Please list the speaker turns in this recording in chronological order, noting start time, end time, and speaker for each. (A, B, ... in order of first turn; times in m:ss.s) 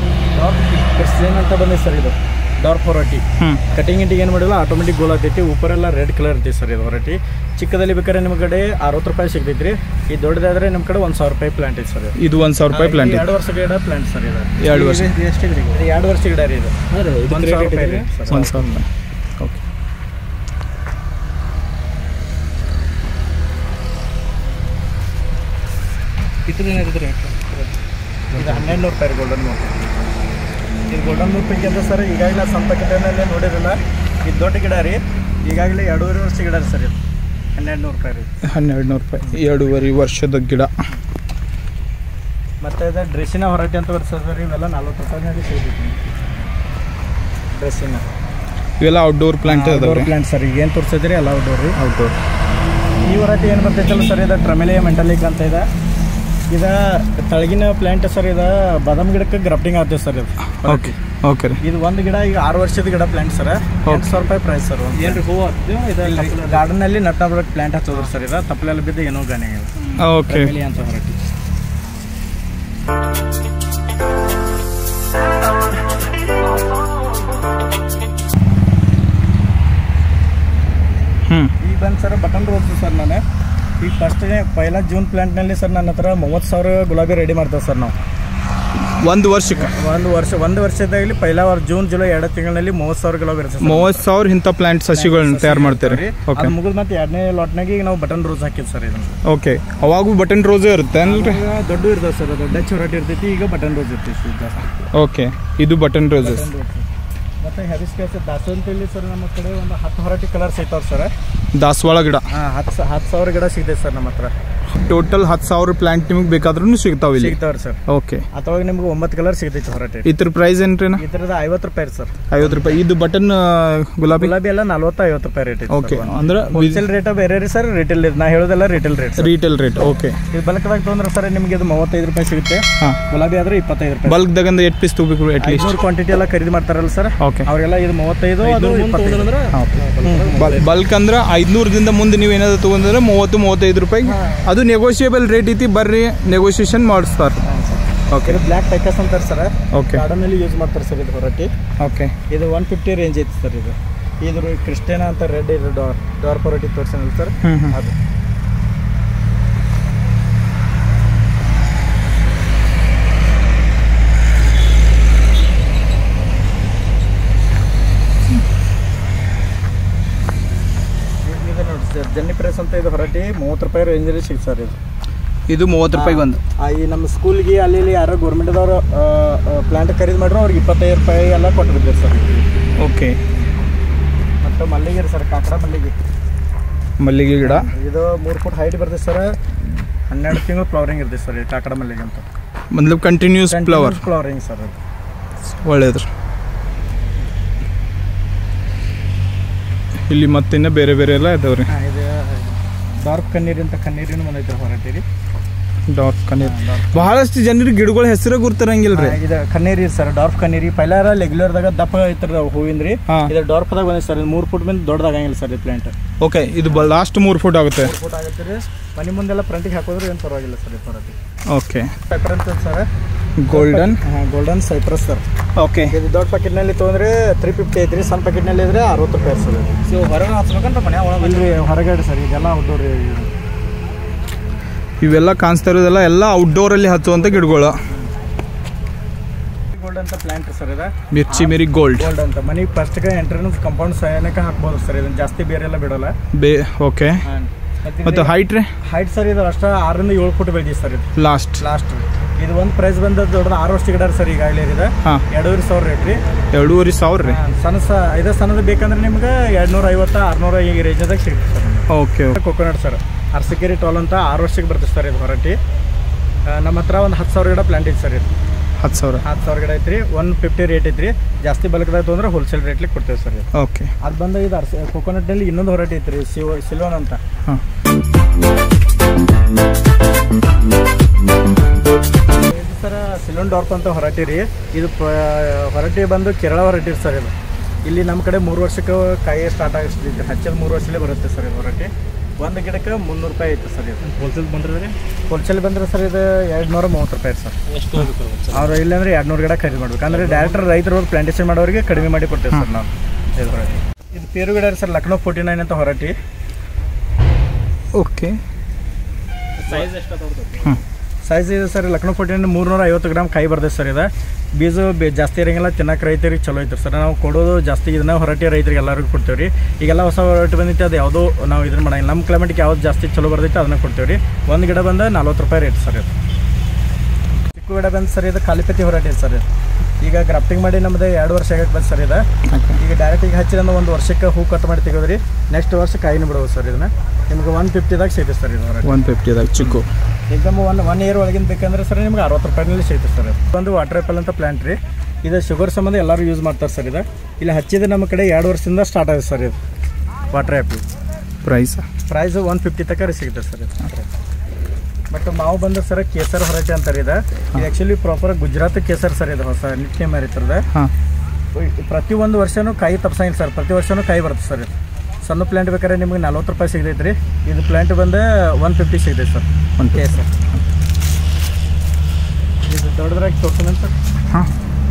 0:00.3-0:12.2 A
0:12.2-0:13.3 B
0:12.7-0:14.5 A
0:14.6-0:15.1 B
0:14.7-0:15.8 C
0:15.7-0:16.7 A
0:16.9-0:18.1 C
0:17.3-0:18.6 A
0:18.3-0:18.9 B
0:26.5-0:27.8 C
0:28.3-0:28.8 C
0:28.4-0:29.8 A
0:30.9-0:37.0 A
0:37.6-0:38.3 A
0:38.4-0:40.7 B
0:42.6-0:46.4 A
0:47.6-0:48.0 A
0:48.8-0:50.1 B
0:49.4-0:51.8 A
0:51.8-0:52.2 B
0:53.1-0:55.7 A
0:56.5-1:01.0 A
1:00.6-1:01.6 B
1:01.6-1:05.2 A
1:04.9-1:06.7 C
1:06.0-1:09.7 A
1:10.0-1:10.5 B
1:10.3-1:11.2 A
1:21.3-1:21.5 B
1:21.6-1:23.2 A
1:23.8-1:28.0 A
1:29.0-1:29.7 B
1:29.5-1:34.0 A
1:33.6-1:36.5 B
1:34.9-1:39.2 A
1:39.2-1:41.4 B
1:41.0-1:44.9 A
1:44.9-1:46.5 B
1:46.2-1:46.9 A
1:47.4-1:51.1 A
1:51.5-1:52.3 B
1:52.3-1:54.3 A
1:54.7-1:58.2 B
1:57.2-1:57.8 A
1:58.3-2:00.1 A
2:00.0-2:01.0 B
2:01.0-2:02.8 A
2:02.3-2:04.3 B
2:04.1-2:09.3 A
2:05.7-2:06.8 B
2:09.2-2:10.2 B
2:10.3-2:14.2 A
2:14.0-2:15.8 B
2:15.4-2:19.3 A
2:17.2-2:17.5 B
2:18.4-2:20.8 C
2:19.5-2:19.8 B
2:20.0-2:20.6 A
2:20.4-2:27.4 B
2:24.0-2:24.5 A
2:27.4-2:31.5 A
2:28.1-2:28.4 B
2:29.7-2:30.0 B
2:31.8-2:32.1 B
2:32.3-2:38.0 A
2:37.4-2:37.8 B
2:51.2-2:54.8 A
2:55.5-2:56.4 B
2:55.9-3:02.5 A
3:02.8-3:03.2 B
3:04.4-3:06.0 A
3:07.0-3:07.7 B
3:07.4-3:09.4 A
3:10.1-3:12.2 A
3:12.7-3:14.0 B
3:13.5-3:14.8 A
3:15.6-3:16.1 B
3:20.1-3:21.7 B
3:21.7-3:25.0 A
3:25.9-3:29.2 B
3:26.4-3:27.1 A
3:28.9-3:35.9 A
3:36.2-3:37.9 B
3:37.8-3:41.2 A
3:41.5-3:41.9 B
3:42.1-3:42.9 A
3:43.4-3:44.0 B
3:43.5-3:45.2 A
3:45.6-3:46.0 B
3:45.9-3:49.7 A
3:49.8-3:51.7 C
3:51.2-3:53.3 A
3:55.0-3:57.8 B
3:57.1-3:58.1 A
3:59.7-4:06.1 A
4:01.1-4:02.1 B
4:06.3-4:07.2 B
4:07.2-4:16.2 A
4:08.0-4:08.7 B
4:11.2-4:11.6 B
4:16.5-4:17.4 B
4:17.2-4:25.6 A
4:21.9-4:22.4 B
4:26.5-4:28.3 A
4:28.8-4:29.2 B
4:29.2-4:33.5 A
4:33.5-4:33.9 B
4:34.0-4:37.2 A
4:42.3-4:47.3 A
4:47.8-4:54.1 A
4:54.0-4:55.0 C
4:55.3-4:57.6 A
4:57.7-4:58.8 C
4:58.5-5:06.2 A
5:00.1-5:00.6 C
5:08.0-5:08.4 B
5:09.6-5:10.7 C
5:11.2-5:26.1 A
5:27.6-5:29.5 A
5:30.0-5:32.2 A
5:32.5-5:32.8 B
5:32.8-5:39.0 A
5:38.8-5:39.9 B
5:40.3-5:49.6 A
5:50.3-5:50.8 A
5:51.4-5:51.8 B
5:52.1-5:54.1 A
5:55.1-6:00.7 A
6:01.6-6:10.3 A
6:09.8-6:10.2 B
6:12.6-6:13.9 A